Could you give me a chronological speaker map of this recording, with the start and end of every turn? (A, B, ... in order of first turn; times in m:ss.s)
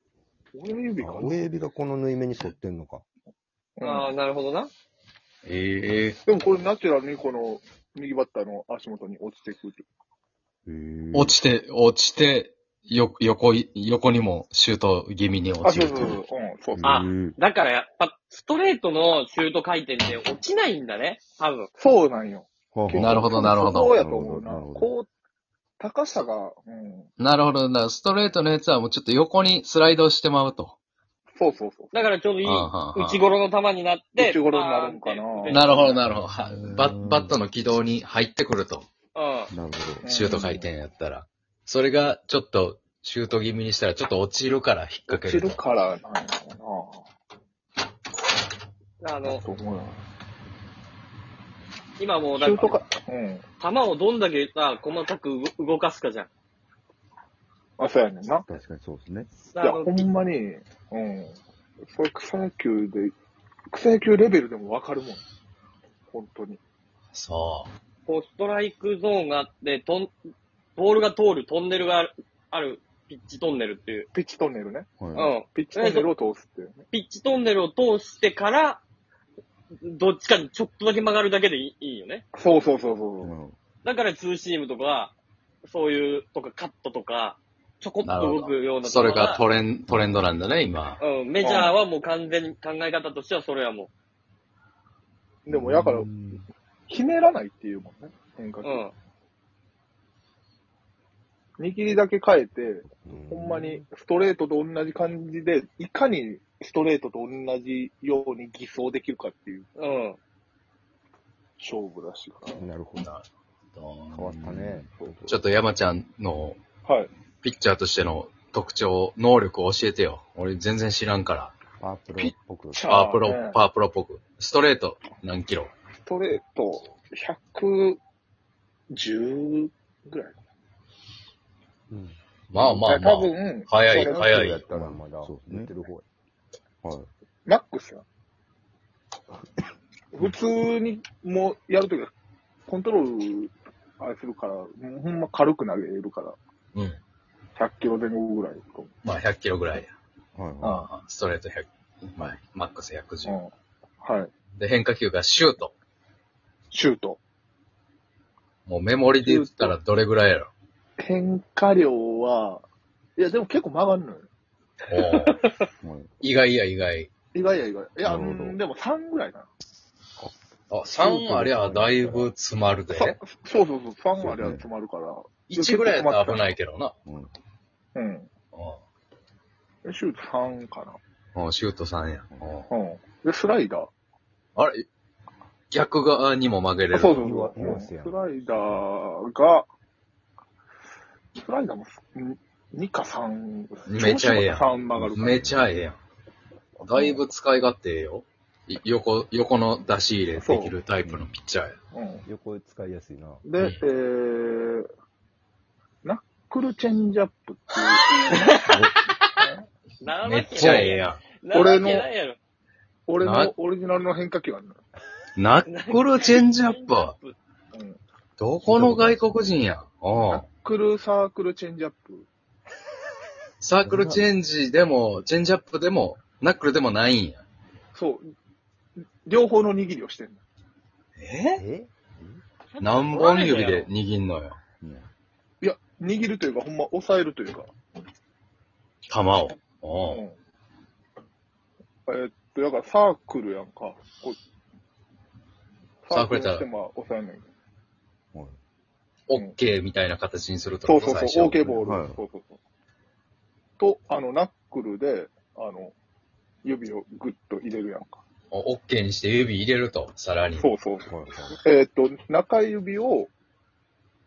0:00.5-0:01.5 A
0:01.0-0:03.0 B
0:03.8-0:04.1 A
0:03.8-0:04.7 C
0:05.4-0:06.2 D
0:06.2-0:09.8 A
0:10.6-0:11.4 E
0:11.1-0:16.1 D
0:15.6-0:16.9 A
0:16.7-0:17.4 E
0:16.8-0:21.7 C
0:21.8-0:25.1 A
0:22.7-0:24.9 E
0:22.9-0:24.0 D
0:25.8-0:27.1 A
0:27.2-0:30.8 D
0:31.4-0:32.1 A
0:31.9-0:36.0 C
0:32.4-0:33.2 D
0:34.2-0:35.6 A
0:35.5-0:38.9 D
0:36.4-0:37.4 E
0:39.1-0:39.5 C
0:39.5-0:40.3 E
0:40.0-0:40.7 A
0:40.1-0:45.6 D
0:45.1-0:47.0 A
0:49.0-0:49.4 C
0:49.2-0:50.0 A
0:52.0-0:52.8 C
0:52.4-0:53.4 A
0:53.6-0:56.3 C
0:57.8-0:58.5 A
0:58.3-0:59.3 E
0:59.5-1:00.1 C
0:59.6-1:03.1 A
1:03.7-1:05.2 A
1:06.1-1:06.6 A
1:07.1-1:07.7 D
1:08.0-1:10.1 C
1:10.8-1:14.1 C
1:14.1-1:14.9 A
1:15.0-1:15.3 E
1:15.1-1:16.1 C
1:15.4-1:16.8 A
1:16.9-1:18.8 C
1:19.8-1:22.2 C
1:22.3-1:23.3 A
1:23.2-1:23.6 E
1:23.8-1:25.1 C
1:25.6-1:29.4 C
1:28.0-1:31.0 D
1:31.0-1:33.9 C
1:31.4-1:31.8 A
1:35.4-1:36.1 A
1:35.5-1:36.4 E
1:36.9-1:38.8 A
1:38.6-1:38.9 C
1:41.6-1:49.7 A
1:43.0-1:43.8 B
1:49.8-1:50.2 C
1:51.6-1:52.6 A
1:52.5-1:53.1 B
1:53.0-1:54.1 D
1:54.1-1:54.9 E
1:54.1-1:55.4 B
1:55.3-1:56.6 D
1:57.4-2:01.5 D
2:01.8-2:02.9 B
2:02.2-2:03.6 A
2:02.9-2:05.7 D
2:06.0-2:08.0 A
2:08.9-2:10.4 A
2:11.9-2:12.2 B
2:12.5-2:14.6 D
2:12.6-2:14.2 A
2:13.9-2:16.0 B
2:14.6-2:15.7 E
2:16.8-2:17.1 E
2:17.4-2:18.0 A
2:20.1-2:22.1 A
2:22.7-2:26.4 A
2:26.7-2:27.0 D
2:27.6-2:28.9 A
2:29.0-2:29.9 D
2:30.3-2:30.8 E
2:30.6-2:30.9 A
2:30.6-2:33.4 D
2:33.2-2:33.5 A
2:34.0-2:34.3 A
2:34.6-2:35.7 D
2:36.7-2:37.2 A
2:38.7-2:40.5 D
2:39.2-2:39.8 A
2:41.0-2:42.6 A
2:43.2-2:44.3 A
2:44.9-2:45.4 D
2:45.0-2:45.6 C
2:45.8-2:46.1 E
2:46.2-2:47.1 D
2:47.3-2:49.5 A
2:48.0-2:48.6 E
2:50.7-2:53.2 D
2:51.0-2:51.5 E
2:51.6-2:52.3 B
2:52.9-2:56.5 A
2:54.2-2:54.6 E
2:55.5-2:56.9 D
2:57.0-2:57.3 E
2:57.9-2:58.3 A
2:58.5-2:58.8 D
2:59.8-3:01.0 A
3:01.3-3:02.7 D
3:02.7-3:03.9 A
3:04.6-3:04.8 D
3:05.7-3:07.3 D
3:06.9-3:09.7 A
3:07.2-3:08.8 B
3:11.3-3:15.6 A
3:13.9-3:16.0 D
3:14.9-3:15.7 E
3:16.8-3:21.8 D
3:20.3-3:20.8 A
3:21.0-3:21.3 E
3:21.9-3:22.2 A
3:22.2-3:23.4 B
3:23.4-3:24.8 A
3:23.6-3:23.8 D
3:26.0-3:28.3 A
3:28.2-3:28.8 C
3:30.0-3:32.4 C
3:30.2-3:31.2 D
3:30.6-3:31.0 A
3:31.5-3:32.1 A
3:33.1-3:34.8 A
3:33.2-3:33.5 D
3:35.4-3:37.1 D
3:35.6-3:37.4 C
3:37.7-3:38.0 A
3:38.4-3:40.4 D
3:38.7-3:39.2 E
3:40.3-3:42.3 A
3:43.6-3:47.4 D
3:43.8-3:44.2 E
3:47.9-3:48.3 A
3:49.0-3:50.4 A
3:51.2-3:51.6 D
3:51.6-3:52.4 B
3:52.7-3:53.9 C
3:52.8-3:54.6 D
3:54.8-3:55.1 E
3:55.6-3:57.7 A
3:59.1-4:00.2 D
4:00.1-4:00.4 A
4:02.1-4:04.4 A
4:06.0-4:07.5 A
4:06.1-4:06.6 D
4:09.3-4:11.8 D
4:10.8-4:12.6 A
4:11.8-4:12.2 E
4:13.8-4:15.9 A
4:16.6-4:18.2 A
4:18.5-4:20.7 D
4:20.6-4:23.3 A
4:21.0-4:21.6 E